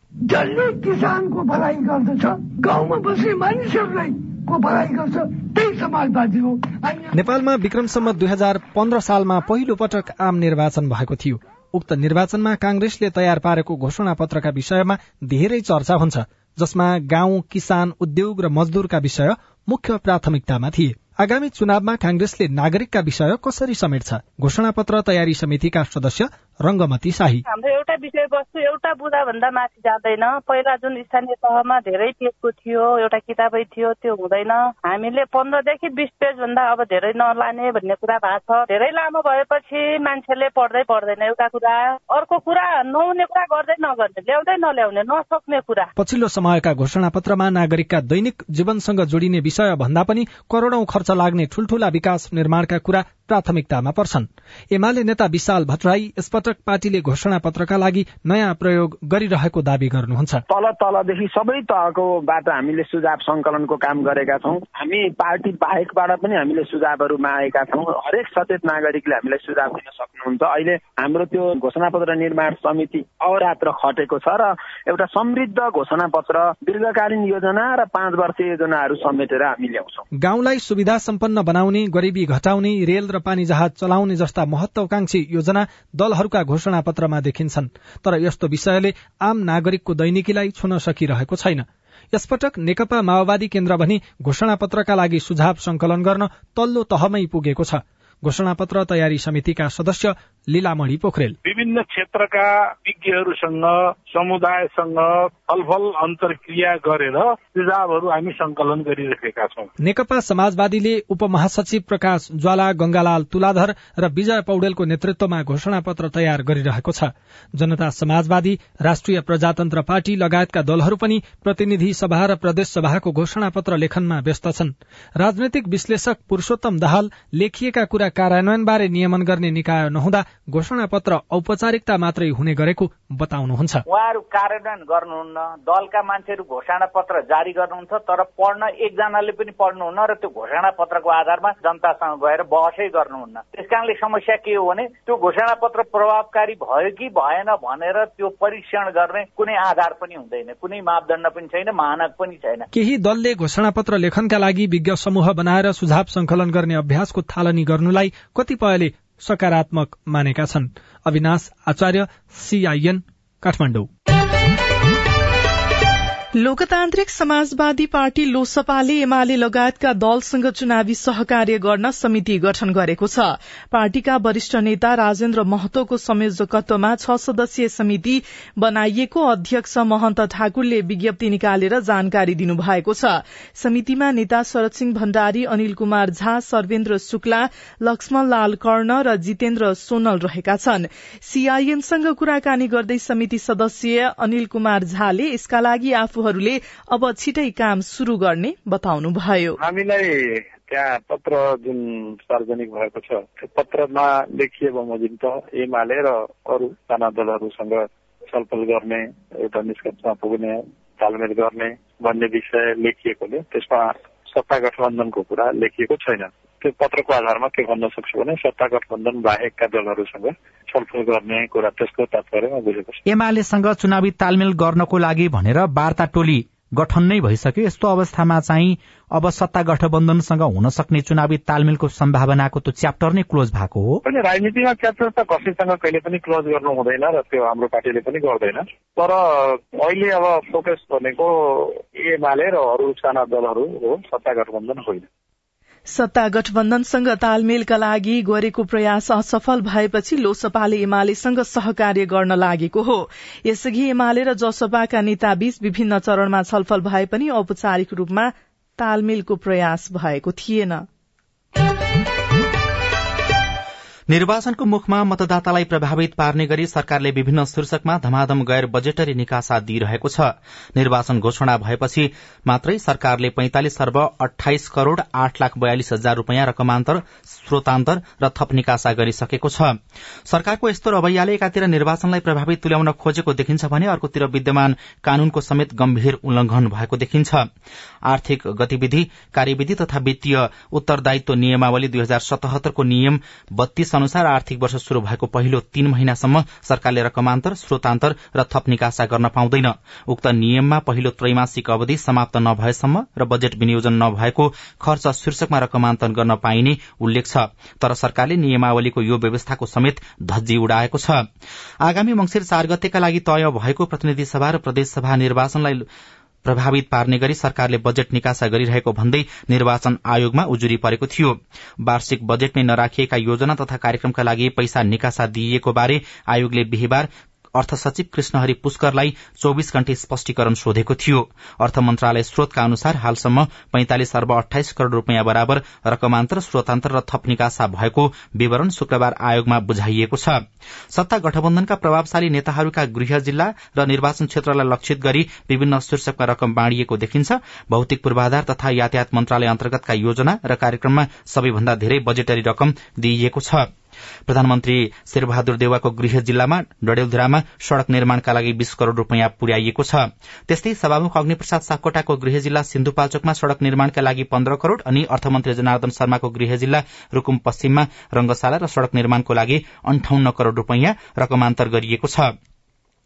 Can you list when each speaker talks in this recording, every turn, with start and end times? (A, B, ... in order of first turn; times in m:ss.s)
0:00.2-0:07.1 A
0:07.1-0:27.4 B
0:27.4-0:45.9 C
0:46.0-1:00.4 B
1:00.5-1:20.0 D
1:20.2-1:41.4 B
1:41.4-1:49.7 E
1:49.8-2:13.8 B
2:13.9-2:32.7 F
2:32.7-2:43.9 B
2:46.4-3:19.6 G
3:19.6-3:43.0 E
3:43.0-3:54.0 H
3:54.0-4:05.0 E
4:05.9-4:20.8 G
4:24.1-4:39.8 H
4:40.3-4:47.4 H
4:48.1-5:11.2 H
5:11.8-5:15.8 H
5:16.4-5:40.4 H
5:40.9-5:53.7 H
5:54.3-6:12.3 H